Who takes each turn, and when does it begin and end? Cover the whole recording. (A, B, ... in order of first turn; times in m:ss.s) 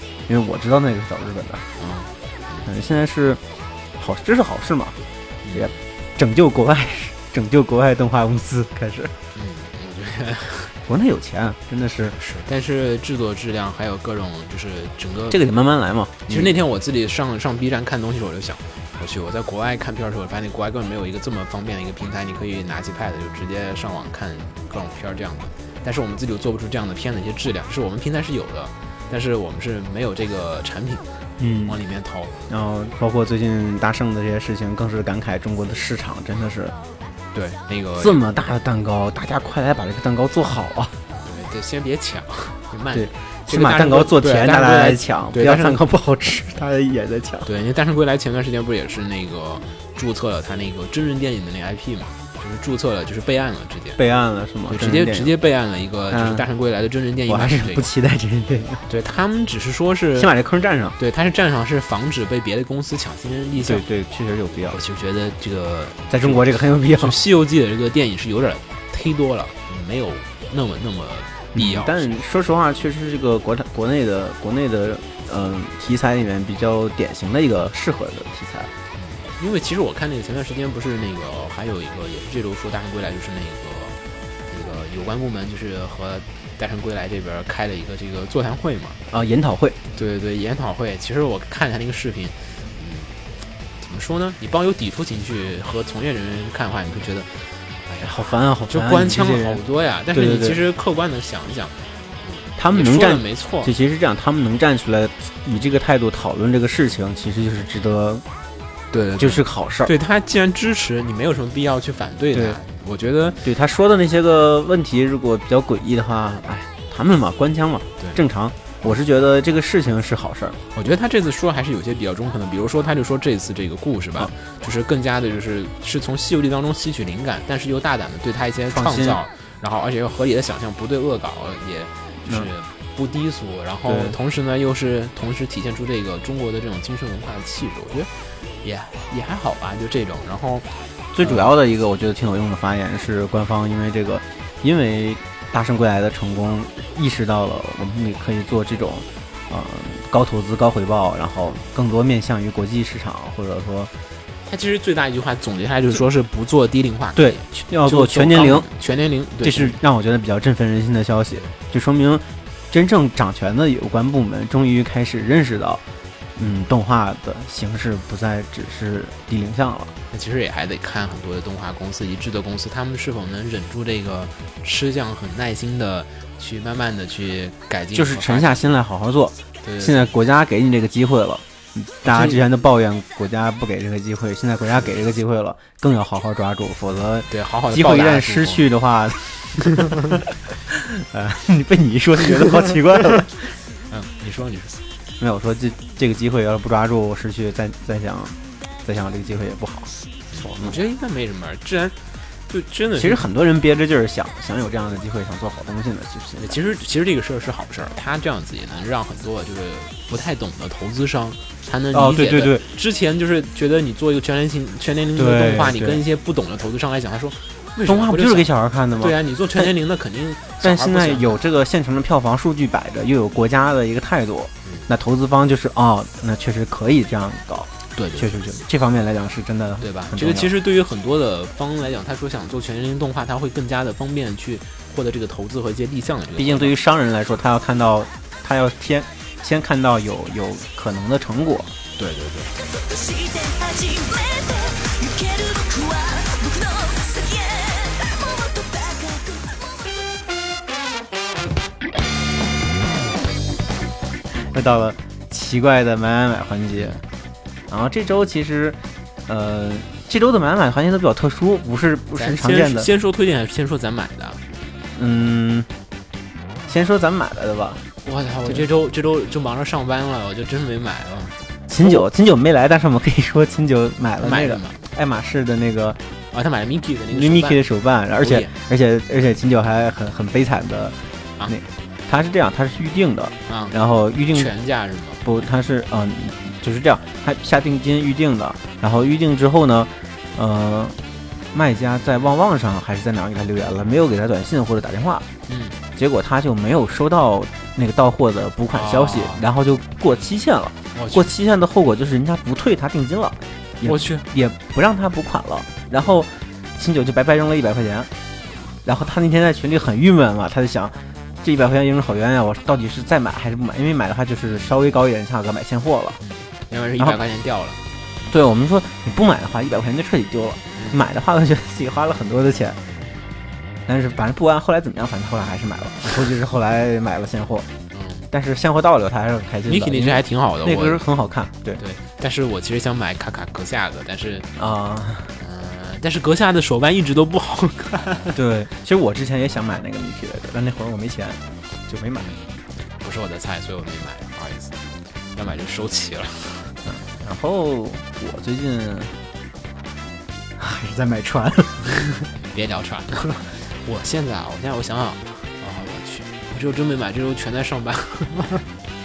0:00.3-0:01.7 A
0:01.8-0:02.7 B
0:02.6-0:03.4 A
0:04.0-0:05.0 A
0:05.4-0:05.8 B
0:05.5-0:09.1 A
0:09.4-0:10.8 B
0:10.9-0:12.2 A
0:12.2-0:15.4 B
0:15.3-0:16.6 A
0:16.3-0:31.1 B
0:31.4-0:31.8 A
0:31.7-0:32.3 B
0:32.5-0:36.8 A
0:37.3-0:38.2 B
0:38.0-0:41.0 A
0:41.2-0:45.8 B
0:42.9-0:47.5 A
0:47.4-0:54.0 B
0:54.0-0:55.3 A
0:54.7-0:57.9 B
0:56.1-0:56.4 A
0:57.3-0:58.8 A
0:58.9-1:00.3 B
1:00.2-1:01.0 A
1:01.0-1:03.8 B
1:03.6-1:04.8 A
1:04.7-1:12.1 B
1:06.1-1:07.2 A
1:11.6-1:18.7 A
1:19.0-1:24.0 B
1:24.5-1:29.0 B
1:29.1-1:29.8 A
1:29.9-1:33.2 B
1:33.8-1:43.7 B
1:38.0-1:39.6 A
1:40.1-1:40.6 A
1:42.6-1:48.2 A
1:48.9-1:53.4 B
1:49.2-1:49.9 A
1:52.3-1:52.6 A
1:53.4-2:00.6 A
2:00.8-2:18.1 B
2:08.7-2:09.2 A
2:13.9-2:14.2 A
2:18.6-2:21.5 B
2:21.1-2:33.9 A
2:34.4-2:39.8 B
2:37.2-2:38.7 A
2:39.4-2:45.8 A
2:46.4-2:49.9 A
2:50.1-2:58.6 B
2:57.9-3:10.0 A
2:59.6-3:00.1 B
3:02.0-3:02.4 B
3:07.3-3:08.7 B
3:10.7-3:13.6 A
3:13.9-3:14.8 B
3:15.2-3:20.8 A
3:20.3-3:22.0 B
3:22.5-3:23.2 B
3:23.0-3:26.6 A
3:26.4-3:41.4 B
3:31.9-3:32.7 A
3:35.2-3:36.0 A
3:37.9-3:39.7 A
3:40.6-3:50.5 A
3:48.0-3:48.4 B
3:49.8-3:56.8 B
3:56.4-4:01.8 A
4:02.0-4:02.5 B
4:02.7-4:09.7 C
4:14.3-4:17.0 A
4:16.8-4:17.0 B
4:17.7-4:22.9 A
4:22.1-4:24.4 B
4:25.0-4:25.7 A
4:26.7-4:27.9 A
4:28.0-4:32.0 B
4:31.7-4:36.0 A
4:34.2-4:34.8 B
4:36.3-4:37.6 B
4:37.1-4:41.0 A
4:38.2-4:38.5 B
4:41.5-4:44.5 A
4:43.5-4:43.8 B
4:44.3-4:45.2 B
4:45.2-4:51.0 A
4:51.5-4:55.3 A
4:55.5-4:55.8 B
4:56.0-5:08.1 A
4:58.7-4:59.4 B
5:01.0-5:01.3 B
5:03.8-5:04.2 B
5:08.8-5:16.2 A
5:16.2-5:17.8 B
5:18.3-5:22.8 A
5:20.8-5:21.0 B
5:23.9-5:27.7 A
5:27.9-5:28.3 B
5:28.3-5:31.8 A
5:29.7-5:31.0 B
5:31.8-5:34.5 B
5:34.6-5:35.3 A
5:35.4-5:38.4 B
5:38.3-5:42.3 A
5:42.2-5:44.8 B
5:45.4-5:46.8 B
5:46.8-5:49.1 A
5:50.6-5:51.8 A
5:52.0-5:58.6 B